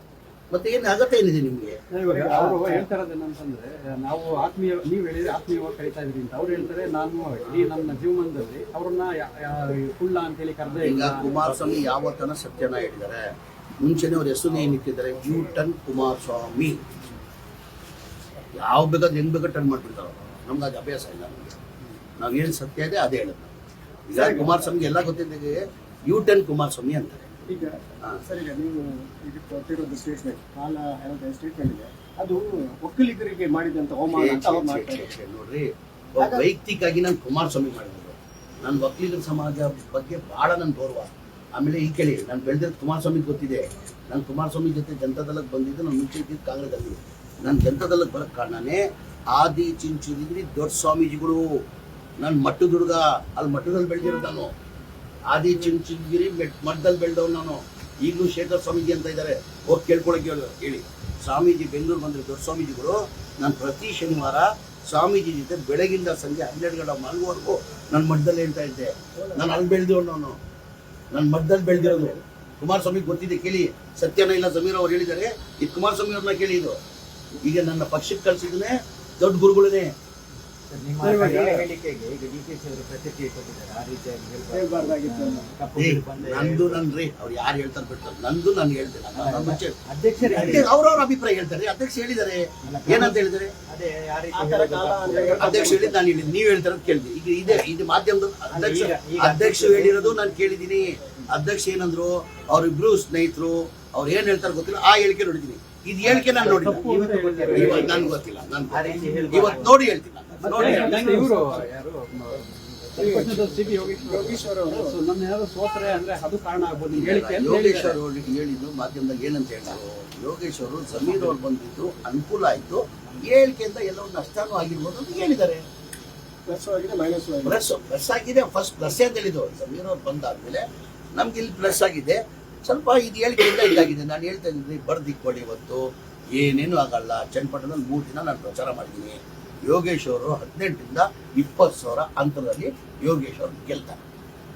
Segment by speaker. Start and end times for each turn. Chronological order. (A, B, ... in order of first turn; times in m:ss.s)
0:00.5-0:01.8 A
0:01.9-0:11.5 B
0:02.1-0:02.9 C
0:10.8-0:13.2 A
0:13.8-0:16.8 A
0:18.6-0:21.6 A
0:22.2-0:27.3 A
0:24.1-0:24.7 C
0:27.5-0:35.1 C
0:34.1-0:51.4 A
0:36.2-0:36.5 C
0:52.2-0:54.5 A
0:55.3-1:10.4 A
1:11.1-1:16.8 A
1:11.9-1:12.1 D
1:17.4-1:19.9 A
1:20.7-1:26.8 D
1:21.0-1:21.6 B
1:24.5-1:25.5 C
1:25.7-1:33.5 A
1:29.1-1:30.7 D
1:32.6-1:35.9 D
1:34.3-1:36.0 C
1:35.3-1:46.8 A
1:38.5-1:40.4 D
1:46.0-1:48.1 D
1:46.3-1:48.1 B
1:47.5-1:51.2 A
1:48.7-1:53.8 D
1:50.4-1:52.4 B
1:52.9-1:58.0 B
1:53.0-1:55.0 C
1:56.9-2:05.6 A
2:06.5-2:07.6 C
2:07.4-2:24.0 A